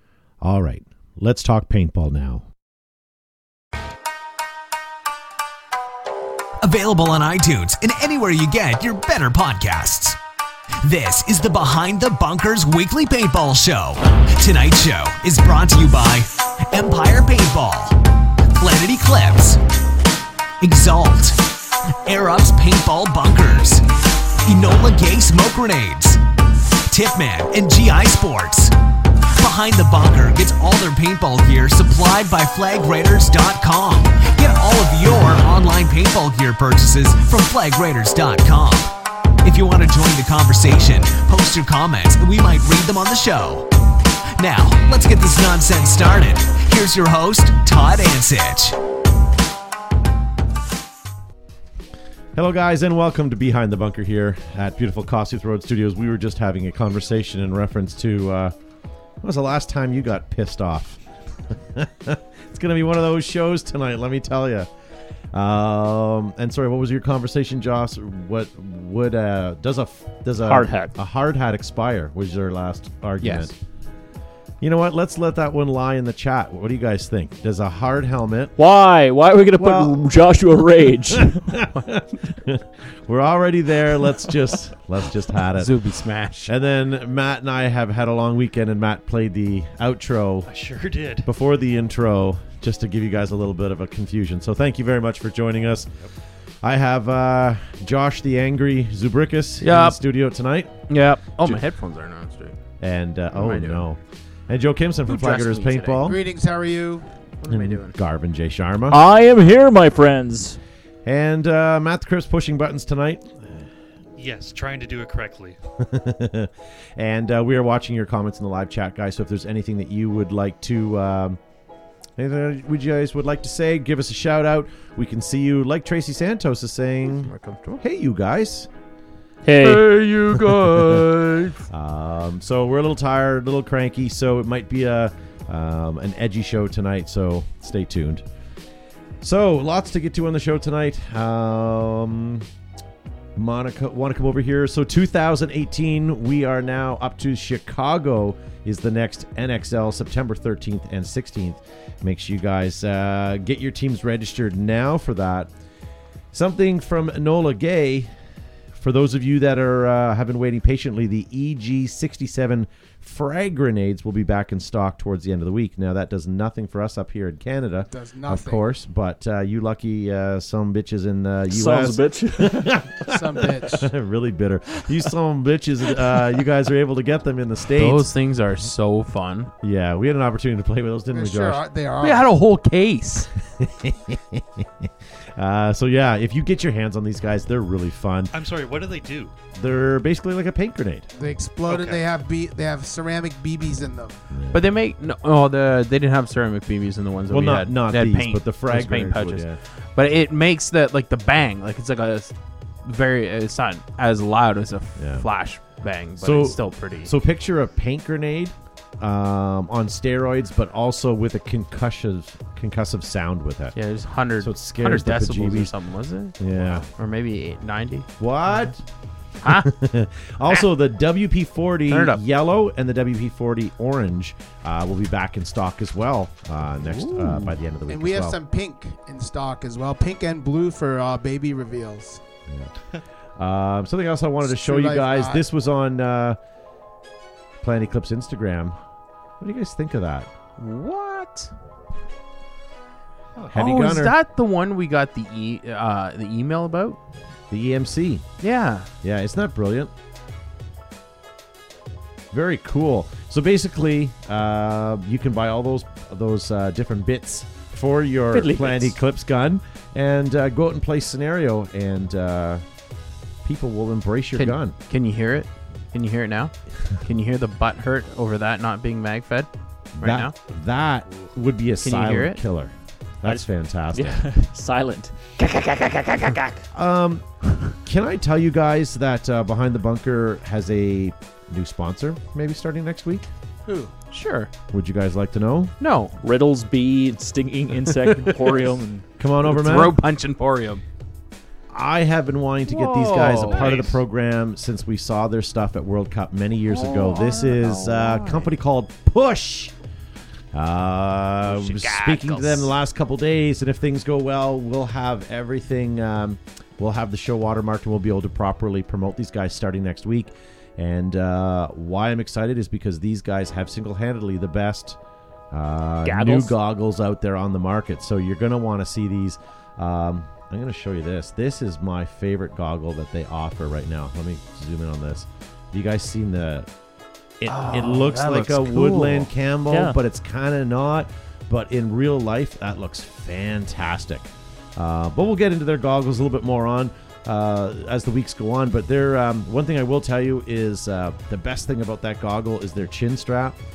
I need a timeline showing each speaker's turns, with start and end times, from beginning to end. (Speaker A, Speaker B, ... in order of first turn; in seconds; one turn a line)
Speaker A: 0.4-2.4
Speaker B: 6.6-10.2
Speaker B: 10.8-18.0
Speaker B: 18.6-19.6
Speaker B: 20.6-23.9
Speaker B: 24.4-26.2
Speaker B: 26.9-28.7
Speaker B: 29.4-38.9
Speaker B: 39.4-43.7
Speaker B: 44.4-48.8
Speaker A: 52.3-58.5
Speaker A: 59.2-61.0
Speaker A: 61.7-64.7
Speaker A: 65.3-73.5
Speaker C: 70.4-70.9
Speaker D: 73.2-73.5
Speaker A: 74.6-78.5
Speaker C: 78.6-81.5
Speaker A: 79.6-80.1
Speaker A: 81.1-85.7
Speaker D: 85.5-86.5
Speaker A: 86.5-90.5
Speaker E: 90.5-91.3
Speaker A: 91.2-95.9
Speaker A: 96.6-100.8
Speaker D: 99.6-100.0
Speaker D: 100.9-102.6
Speaker A: 102.8-106.2
Speaker D: 103.3-103.8
Speaker D: 105.1-106.2
Speaker F: 106.0-107.0
Speaker D: 107.4-108.0
Speaker A: 107.5-109.0
Speaker C: 108.9-110.6
Speaker A: 111.0-113.6
Speaker E: 114.2-115.6
Speaker A: 115.8-121.4
Speaker A: 122.2-128.7
Speaker D: 127.0-127.8
Speaker C: 129.4-129.8
Speaker D: 129.6-131.6
Speaker A: 130.3-131.0
Speaker A: 131.7-138.2
Speaker A: 139.2-142.4
Speaker A: 143.3-155.5
Speaker A: 156.3-158.1
Speaker A: 158.8-178.1
Speaker F: 167.9-168.7
Speaker C: 171.5-172.8
Speaker F: 173.0-173.9
Speaker D: 177.7-179.5
Speaker A: 179.6-181.6
Speaker F: 181.1-182.3
Speaker D: 182.0-183.3
Speaker A: 183.6-188.3
Speaker E: 188.3-189.3
Speaker A: 189.5-191.1
Speaker F: 191.1-194.2
Speaker E: 191.7-192.0
Speaker A: 194.3-194.6
Speaker D: 194.5-199.4
Speaker A: 197.3-199.6
Speaker D: 199.9-202.3
Speaker D: 202.8-207.1
Speaker A: 205.0-205.2
Speaker A: 206.2-213.8
Speaker D: 213.7-218.1
Speaker A: 214.4-215.7
Speaker A: 216.4-216.9
Speaker A: 218.2-218.8
Speaker D: 219.4-219.8
Speaker A: 219.4-228.4
Speaker D: 221.9-222.2
Speaker D: 226.8-227.6
Speaker F: 227.9-232.2
Speaker A: 233.4-236.4
Speaker F: 234.4-235.4
Speaker A: 237.6-238.8
Speaker A: 239.4-240.3
Speaker D: 240.6-241.5
Speaker A: 243.5-244.2
Speaker D: 243.5-247.0
Speaker A: 247.5-248.2
Speaker D: 248.4-248.9
Speaker A: 249.0-249.9
Speaker A: 252.3-262.6
Speaker C: 258.3-258.9
Speaker A: 263.4-264.7
Speaker D: 264.3-269.5
Speaker A: 270.0-274.2
Speaker D: 270.0-270.3
Speaker D: 271.8-272.4
Speaker C: 273.2-276.5
Speaker A: 276.7-283.3
Speaker F: 283.6-283.9
Speaker D: 284.1-284.5
Speaker A: 284.7-285.7
Speaker D: 285.8-286.1
Speaker C: 286.2-289.0
Speaker D: 287.8-288.8
Speaker A: 289.2-290.0
Speaker D: 289.4-290.8
Speaker A: 291.7-299.7
Speaker D: 292.6-293.9
Speaker E: 293.5-293.9
Speaker D: 296.6-298.5
Speaker A: 300.5-315.0
Speaker D: 301.4-302.8
Speaker A: 315.5-326.7
Speaker C: 316.1-316.5
Speaker A: 327.4-343.6
Speaker D: 327.5-329.3
Speaker C: 329.7-330.0